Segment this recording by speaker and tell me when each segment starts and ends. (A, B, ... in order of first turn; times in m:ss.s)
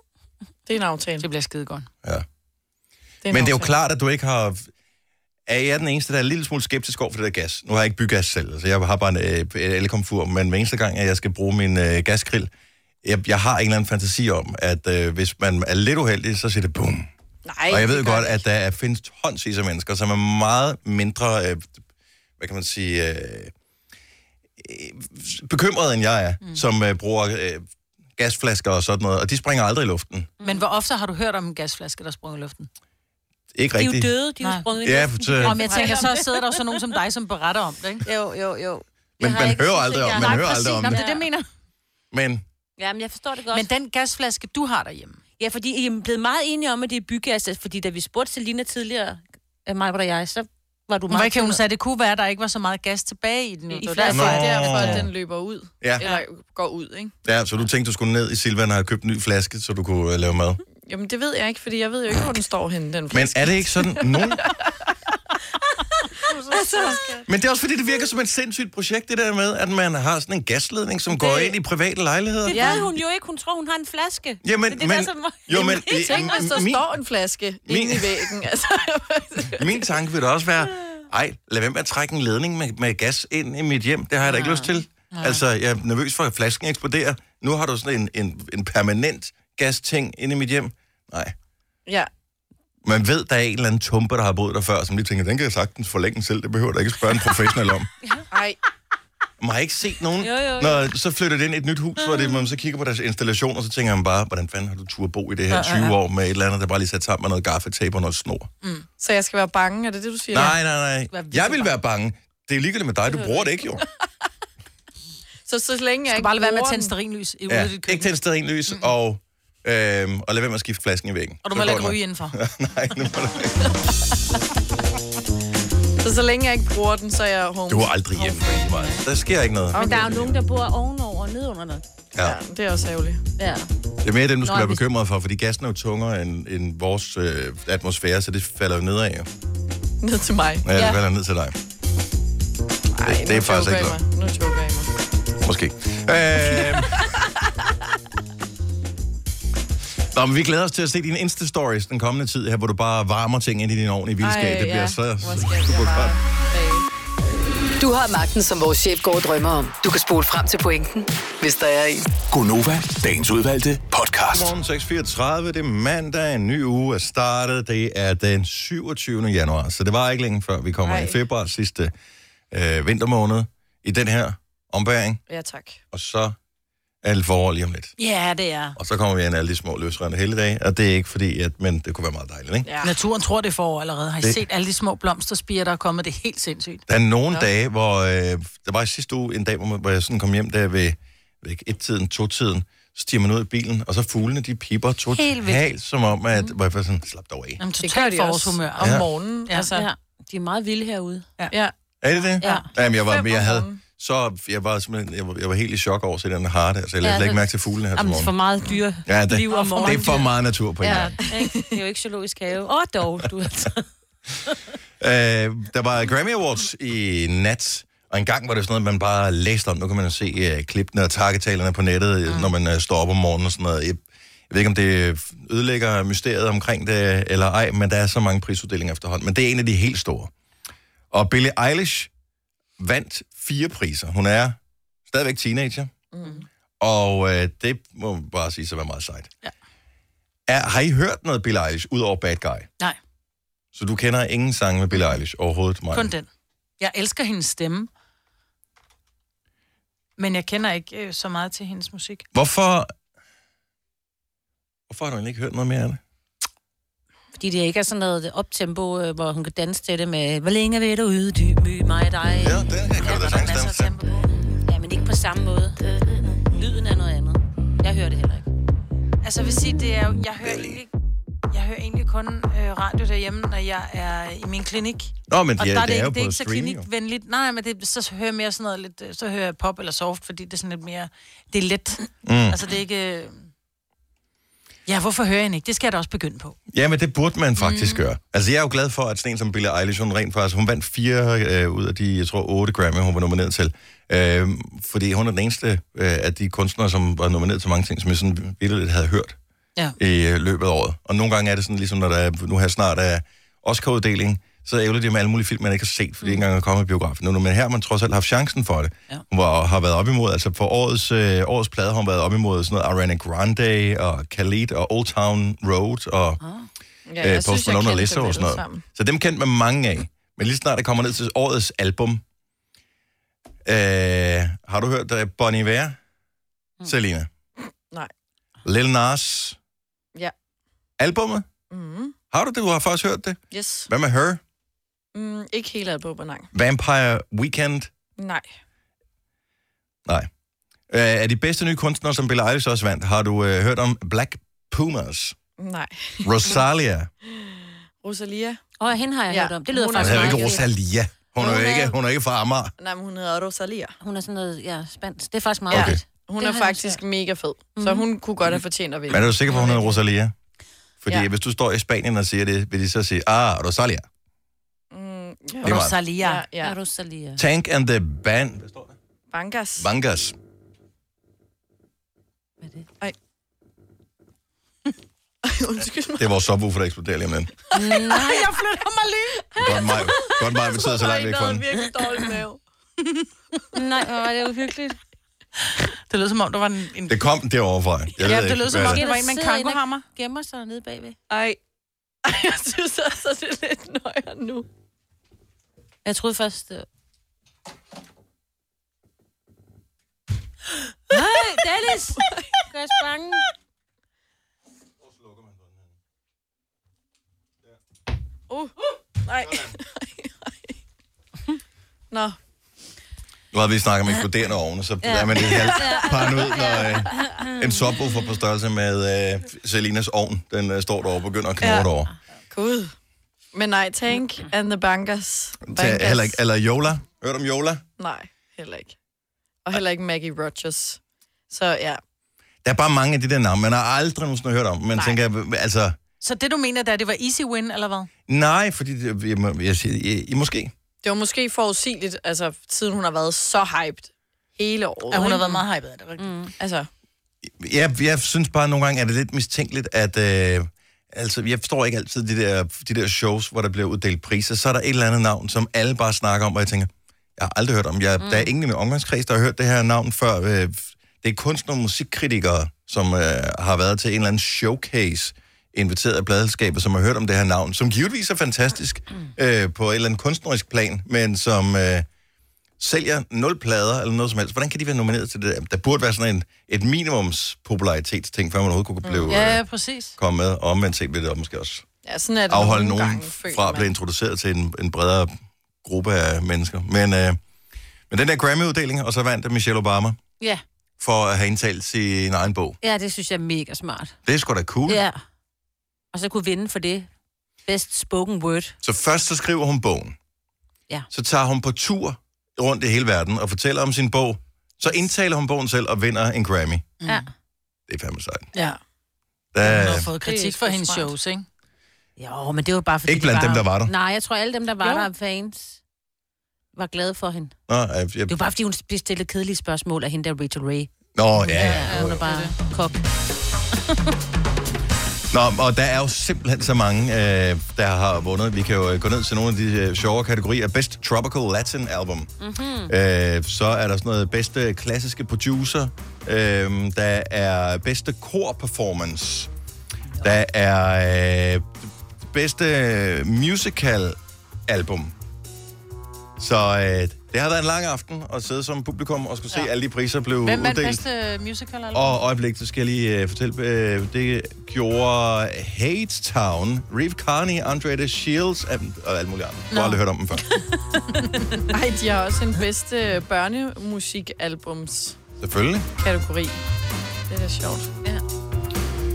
0:00.6-0:01.2 A
0:01.2-0:01.9 B
0:03.2-0:03.7 A
0:03.3-0:04.7 C
0:05.5-0:12.5 C
0:13.0-0:17.1 C
0:17.4-0:18.4 A
0:17.7-0:21.7 C
0:22.4-0:23.5 C
0:24.6-0:27.6 C
0:28.2-0:30.3 C
0:30.4-0:32.7 B
0:33.5-0:34.1 C
0:33.8-0:36.8 D
0:34.4-0:34.7 B
0:34.8-0:35.8 C
0:35.4-0:38.0 B
0:38.0-0:41.2 D
0:39.2-0:41.0 C
0:40.1-0:41.4 B
0:42.1-0:42.4 C
0:42.8-0:43.7 D
0:43.5-0:45.2 B
0:45.4-0:51.6 D
0:51.1-0:55.0 B
0:53.8-0:54.4 D
0:53.8-0:57.1 A
0:54.1-0:55.1 C
0:57.2-1:00.6 C
1:00.8-1:04.6 A
1:03.1-1:04.5 C
1:06.3-1:07.2 D
1:06.5-1:07.2 A
1:07.2-1:12.9 C
1:11.1-1:11.5 D
1:12.5-1:16.4 D
1:12.5-1:12.8 A
1:14.4-1:16.9 C
1:16.0-1:19.7 A
1:17.6-1:18.3 C
1:19.5-1:31.3 C
1:24.3-1:24.7 D
1:25.1-1:25.4 B
1:32.8-1:37.9 C
1:38.3-1:38.6 A
1:39.4-1:48.5 C
1:40.2-1:40.8 D
1:45.5-1:45.9 B
1:49.0-1:50.6 A
1:50.3-1:53.8 C
1:51.1-1:51.7 B
1:55.5-1:56.9 A
1:56.1-1:58.1 B
1:57.5-2:03.7 C
2:01.4-2:02.4 B
2:06.0-2:08.8 A
2:07.7-2:10.4 C
2:09.7-2:10.2 A
2:09.7-2:11.8 D
2:12.2-2:13.2 A
2:13.4-2:13.7 D
2:14.0-2:19.3 C
2:14.4-2:14.8 D
2:20.0-2:20.6 A
2:20.6-2:21.5 C
2:20.7-2:21.0 D
2:22.9-2:24.9 A
2:23.0-2:24.0 C
2:25.4-2:27.1 C
2:30.1-2:36.2 C
2:34.2-2:36.9 A
2:37.8-2:42.0 E
2:42.3-2:44.5 F
2:44.3-2:51.9 C
2:50.8-2:51.2 A
2:52.5-2:55.2 C
2:55.3-2:55.8 A
2:55.9-2:56.4 C
2:57.0-2:57.9 C
2:58.0-2:58.8 B
2:58.8-3:02.7 C
3:02.6-3:02.9 A
3:02.8-3:06.8 B
3:06.9-3:17.6 C
3:15.1-3:15.6 B
3:17.6-3:19.8 B
3:17.8-3:19.8 A
3:18.8-3:19.0 C
3:19.7-3:21.3 D
3:22.0-3:28.3 C
3:22.4-3:22.7 D
3:22.8-3:23.8 A
3:27.0-3:30.3 D
3:29.0-3:31.2 C
3:29.5-3:30.3 B
3:30.8-3:33.8 D
3:35.0-3:50.3 C
3:51.1-3:52.1 C
3:52.8-3:55.9 C
3:56.1-3:56.4 A
3:56.8-3:59.3 C
4:00.5-4:02.7 C
4:03.7-4:06.1 C
4:05.9-4:06.3 B
4:06.8-4:07.9 B
4:10.2-4:12.2 B
4:12.3-4:12.9 C
4:14.9-4:16.0 C
4:17.4-4:23.6 D
4:22.4-4:23.9 C
4:23.0-4:24.2 B
4:24.6-4:25.8 D
4:26.3-4:28.5 D
4:29.2-4:30.9 B
4:31.5-4:43.3 B
4:35.3-4:36.9 C
4:42.2-4:42.6 C
4:44.9-4:46.6 B
4:46.7-4:59.4 C
5:00.0-5:16.4 C
5:16.4-5:16.7 D
5:17.1-5:18.8 A
5:17.2-5:22.2 C
5:23.6-5:26.0 C
5:26.8-5:27.3 C
5:28.6-5:29.6 C
5:31.0-5:31.4 C
5:31.7-5:32.1 A
5:32.3-5:34.4 C
5:33.5-5:33.9 A
5:35.1-5:36.5 A
5:36.5-5:37.9 C
5:38.2-5:38.5 A
5:40.9-5:45.4 C
5:45.6-5:46.6 A
5:46.2-5:47.1 C
5:47.2-5:48.6 A
5:48.8-5:50.7 D
5:49.3-5:50.6 A
5:50.0-5:52.7 C
5:51.4-5:51.9 A
5:52.8-5:53.9 A
5:54.0-5:57.0 D
5:55.7-5:56.0 C
5:55.7-5:59.9 A
5:57.8-5:58.0 D
5:59.1-6:00.3 C
6:01.0-6:04.0 C
6:04.9-6:06.8 A
6:05.6-6:06.0 C
6:05.6-6:06.4 B
6:06.6-6:07.4 D
6:07.4-6:09.0 C
6:09.3-6:09.9 A
6:09.8-6:10.3 C
6:15.4-6:16.2 A
6:16.2-6:17.5 C
6:17.7-6:18.5 D
6:18.1-6:19.5 B
6:19.6-6:21.7 C
6:19.8-6:22.6 A
6:23.7-6:25.0 D
6:26.1-6:27.2 B
6:27.1-6:29.0 C
6:28.2-6:30.0 B
6:28.7-6:31.2 D
6:31.3-6:31.6 A
6:32.2-6:34.7 A
6:36.0-6:36.8 D
6:41.1-6:43.4 D
6:42.2-6:42.6 A
6:45.0-6:45.9 C
6:48.5-6:50.7 A
6:49.4-6:49.7 C
6:52.1-6:52.4 A
6:53.5-7:02.1 C
6:55.0-6:57.8 D
6:55.4-6:55.9 A
7:02.5-7:02.9 A
7:03.5-7:06.4 A
7:05.6-7:07.8 C
7:08.0-7:09.0 A
7:09.6-7:12.0 A
7:12.6-7:16.0 C
7:16.2-7:18.1 B
7:18.3-7:20.7 C
7:21.0-7:25.6 A
7:25.1-7:26.5 B
7:26.2-7:26.5 D
7:26.6-7:26.9 A
7:27.4-7:52.0 C
7:38.2-7:38.5 D
7:52.8-7:59.6 C
7:59.0-7:59.3 A
7:59.3-8:00.2 B
8:00.2-8:01.8 C
8:02.0-8:03.9 A
8:02.5-8:07.4 C
8:08.1-8:10.2 C
8:11.0-8:12.8 C
8:12.8-8:14.1 D
8:14.2-8:15.0 C
8:14.9-8:15.2 D
8:16.1-8:17.1 D
8:17.7-8:18.8 D
8:18.8-8:20.1 C
8:21.1-8:26.9 C
8:27.0-8:27.3 B
8:27.9-8:28.5 C
8:29.5-8:30.1 C
8:29.6-8:31.4 B
8:30.2-8:31.1 A
8:32.2-8:35.8 D
8:33.0-8:33.9 C
8:34.8-8:35.1 B
8:36.7-8:37.5 D
8:37.7-8:38.3 C
8:38.3-8:40.9 D
8:41.1-8:42.2 C
8:41.4-8:43.0 D
8:41.5-8:42.5 B
8:45.3-8:52.3 C
8:52.4-8:52.9 D
8:52.9-8:59.5 C
9:00.2-9:05.1 C
9:06.4-9:11.0 C
9:10.4-9:12.2 B
9:11.9-9:20.5 C
9:19.7-9:20.0 B
9:21.7-9:25.2 A
9:25.4-9:25.9 C
9:26.0-9:26.6 A
9:27.3-9:27.9 A